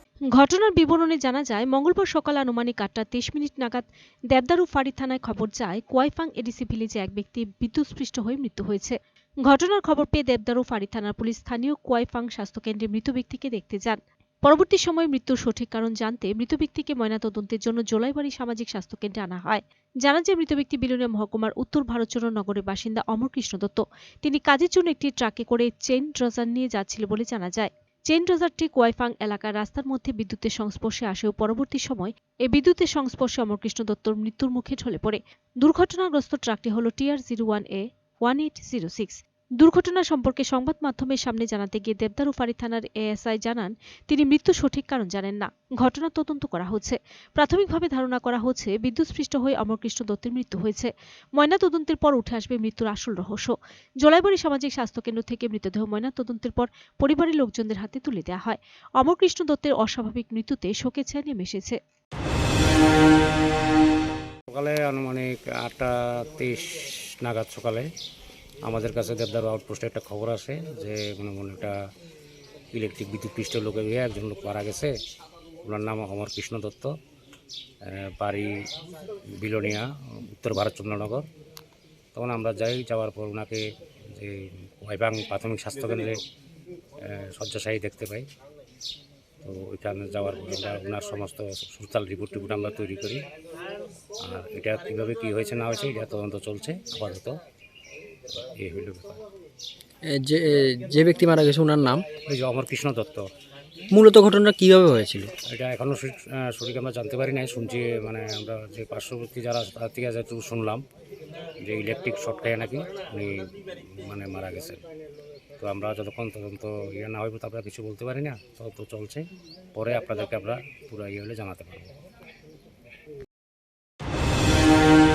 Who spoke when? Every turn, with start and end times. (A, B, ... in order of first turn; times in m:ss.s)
0:00.3-1:01.8 A
1:04.5-1:07.9 B
1:08.6-1:11.7 B
1:12.7-1:14.9 B
1:15.6-1:16.9 B
1:17.8-1:18.5 B
1:19.4-1:21.2 B
1:22.2-1:23.6 B
1:24.2-1:26.2 B
1:27.0-1:28.3 B
1:29.4-1:33.2 B
1:34.2-1:37.4 B
1:38.3-1:39.2 B
1:40.1-1:42.1 C
1:42.3-1:43.3 B
1:43.9-1:45.3 C
1:45.5-1:50.8 B
1:51.6-1:53.3 B
1:53.9-1:54.8 B
1:55.6-2:01.9 B